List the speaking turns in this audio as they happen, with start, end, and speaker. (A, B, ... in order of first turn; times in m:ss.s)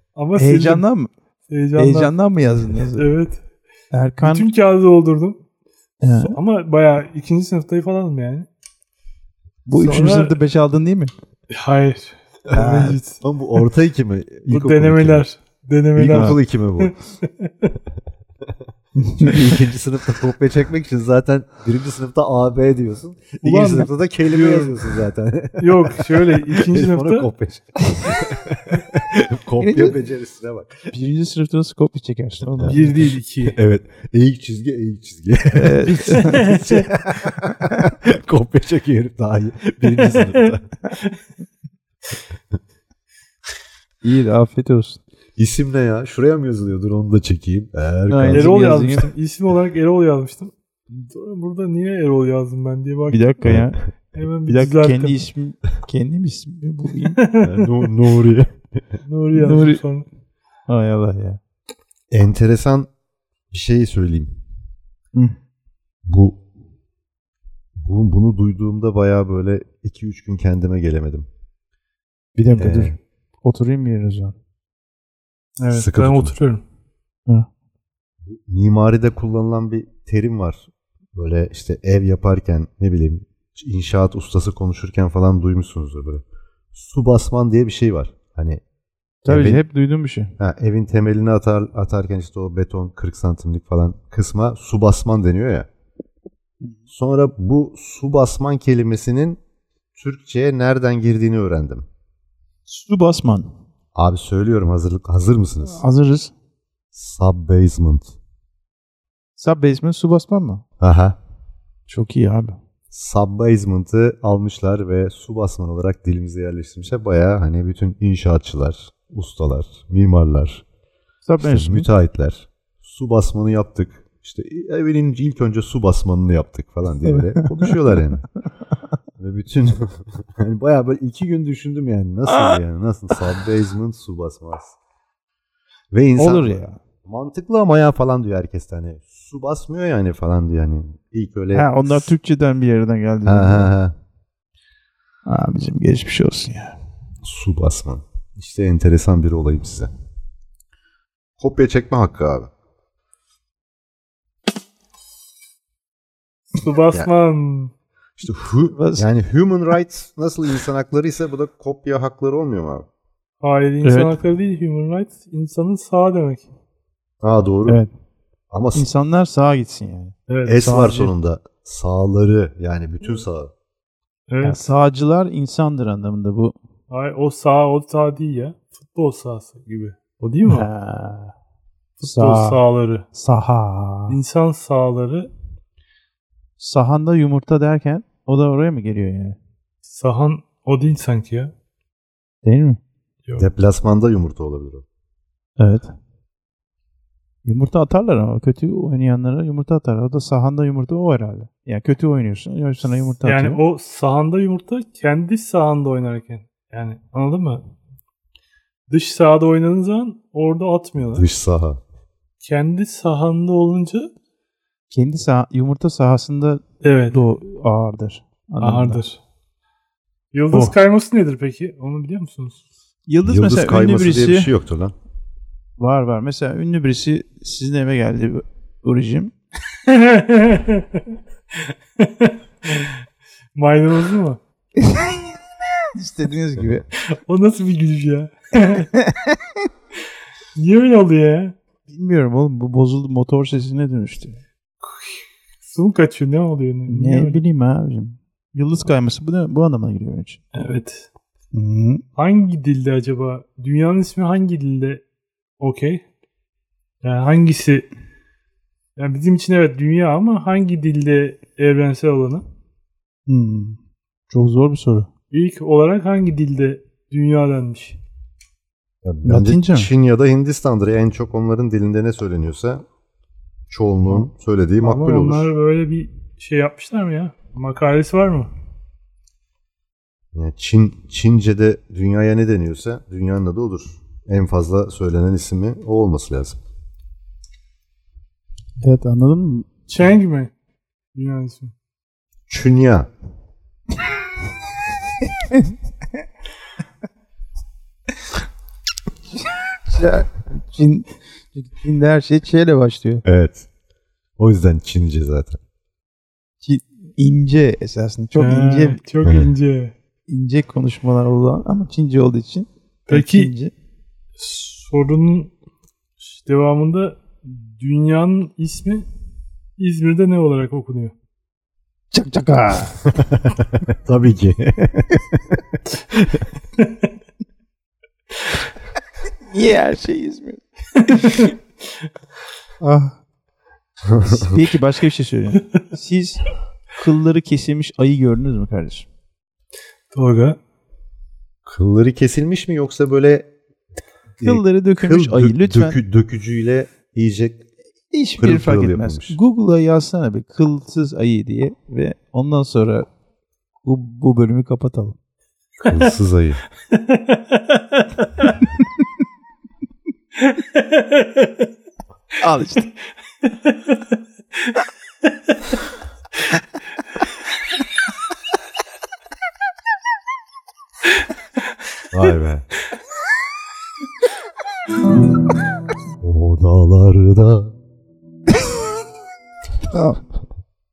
0:00.2-0:00.8 A
0:00.4-0:01.1 B
0:01.5-0:02.2 A
0:01.8-0:03.1 B
0:02.7-0:03.4 A
0:03.9-0:04.5 B
0:04.2-0:05.4 A
0:06.0-0:06.4 B
0:06.2-0:08.5 A
0:09.7-0:11.1 B
0:09.7-0:10.4 A
0:11.5-0:13.6 A
0:12.5-0:15.2 C
0:12.5-0:13.0 B
0:14.5-0:17.7 A
0:16.0-0:16.9 C
0:16.1-0:16.4 B
0:19.0-0:19.5 B
0:19.2-0:30.9 C
0:23.4-0:24.8 A
0:25.6-0:27.3 A
0:28.0-0:28.2 B
0:29.6-0:30.0 B
0:30.9-0:33.0 B
0:32.6-0:40.6 C
0:32.6-0:33.6 A
0:35.5-0:36.5 B
0:36.3-0:36.8 A
0:40.0-0:40.5 A
0:44.0-0:45.0 B
0:45.4-0:48.6 C
0:48.1-0:49.1 B
0:48.3-0:53.2 A
0:53.1-0:53.8 B
0:54.1-0:55.2 A
0:54.5-0:57.2 B
0:57.1-0:57.9 A
0:57.4-0:58.5 C
0:59.1-1:00.1 A
0:59.4-0:59.8 B
1:00.7-1:01.4 B
1:02.1-1:02.9 C
1:03.5-1:04.3 C
1:06.1-1:06.4 C
1:07.8-1:11.3 C
1:12.4-1:14.4 B
1:12.6-1:13.0 C
1:15.6-1:16.6 A
1:15.7-1:16.3 C
1:18.3-1:26.2 C
1:26.7-1:28.6 C
1:29.2-1:30.3 B
1:29.3-1:29.6 C
1:30.4-1:35.7 C
1:36.9-1:39.4 C
1:40.0-1:41.8 C
1:42.7-1:43.5 B
1:44.0-1:45.8 C
1:45.6-1:46.3 B
1:46.9-1:48.2 C
1:49.4-1:50.6 B
1:50.8-1:51.2 C
1:51.9-1:52.6 B
1:52.9-2:00.6 C
2:01.2-2:01.9 B
2:01.4-2:08.3 C
2:07.4-2:07.7 B
2:09.2-2:14.8 C
2:15.9-2:22.1 C
2:16.2-2:16.8 B
2:21.5-2:23.7 B
2:23.2-2:24.0 C
2:25.3-2:26.7 B
2:27.2-2:29.9 C
2:31.4-2:32.5 C
2:36.6-2:37.7 A
2:38.2-2:42.9 C
2:38.7-2:39.1 B
2:43.4-2:46.5 A
2:43.8-2:44.2 B
2:47.2-2:47.8 C
2:47.7-2:47.9 B
2:48.5-2:48.9 C
2:48.7-2:50.1 B
2:50.3-2:51.1 A
2:50.5-2:53.5 C
2:54.3-2:54.7 A
2:54.4-2:56.6 B
2:56.9-3:00.7 A
3:00.5-3:01.3 B
3:02.0-3:03.1 A
3:02.0-3:02.6 B
3:03.1-3:04.2 B
3:04.1-3:05.3 A
3:06.6-3:09.4 B
3:09.9-3:11.5 A
3:12.4-3:12.8 B
3:13.4-3:14.8 C
3:15.6-3:15.9 B
3:17.4-3:23.6 B
3:23.2-3:27.7 A
3:28.9-3:31.3 A
3:31.1-3:31.8 C
3:32.4-3:34.1 A
3:34.9-3:39.0 B
3:36.8-3:37.2 A
3:38.6-3:39.2 A
3:40.3-3:42.6 A
3:43.1-3:44.5 B
3:43.2-3:44.9 C
3:45.8-3:49.3 B
3:49.9-3:51.0 A
3:52.0-3:53.0 A
3:53.6-3:54.4 A
3:54.8-3:55.3 B
3:55.9-3:56.9 B
3:57.1-3:58.9 A
3:58.9-3:59.4 B
4:00.6-4:01.6 A
4:01.9-4:04.4 B
4:04.8-4:07.4 A
4:06.9-4:10.4 B
4:10.5-4:11.1 A
4:11.5-4:12.0 B
4:12.2-4:15.0 A
4:15.6-4:16.0 A
4:17.0-4:17.9 A
4:19.0-4:22.4 A
4:23.3-4:23.8 B
4:24.3-4:25.1 B
4:25.3-4:28.0 A
4:29.0-4:32.8 C
4:29.2-4:29.9 B
4:33.7-4:35.5 C
4:34.8-4:38.5 A
4:40.3-4:46.6 C
4:48.8-4:49.7 B
4:49.9-4:50.5 A
4:51.2-4:51.7 A
4:52.5-4:53.1 C
4:59.9-5:03.2 B
5:03.2-5:03.7 C
5:04.4-5:05.6 C
5:06.6-5:09.0 B
5:08.4-5:09.9 A
5:09.2-5:09.5 C
5:10.3-5:13.7 B
5:13.1-5:13.5 A
5:14.4-5:15.5 A
5:16.2-5:19.1 A
5:19.8-5:21.1 A
5:22.1-5:23.0 B
5:24.0-5:25.6 C
5:29.5-5:31.5 B
5:31.2-5:31.5 A
5:32.8-5:33.2 B
5:34.1-5:34.6 C
5:34.3-5:36.4 B
5:37.0-5:39.1 B
5:40.1-5:40.6 A
5:41.6-5:43.5 C
5:44.4-5:47.6 C
5:44.4-5:46.0 B
5:48.1-5:53.1 B
5:48.4-5:49.4 C
5:53.8-5:55.2 B
5:55.8-5:56.1 A
5:55.8-5:56.6 C
5:56.9-5:58.4 A
6:00.5-6:01.5 A
6:02.4-6:02.9 B
6:03.7-6:04.0 A
6:12.1-6:12.6 C
6:16.2-6:17.7 C
6:19.9-6:20.2 B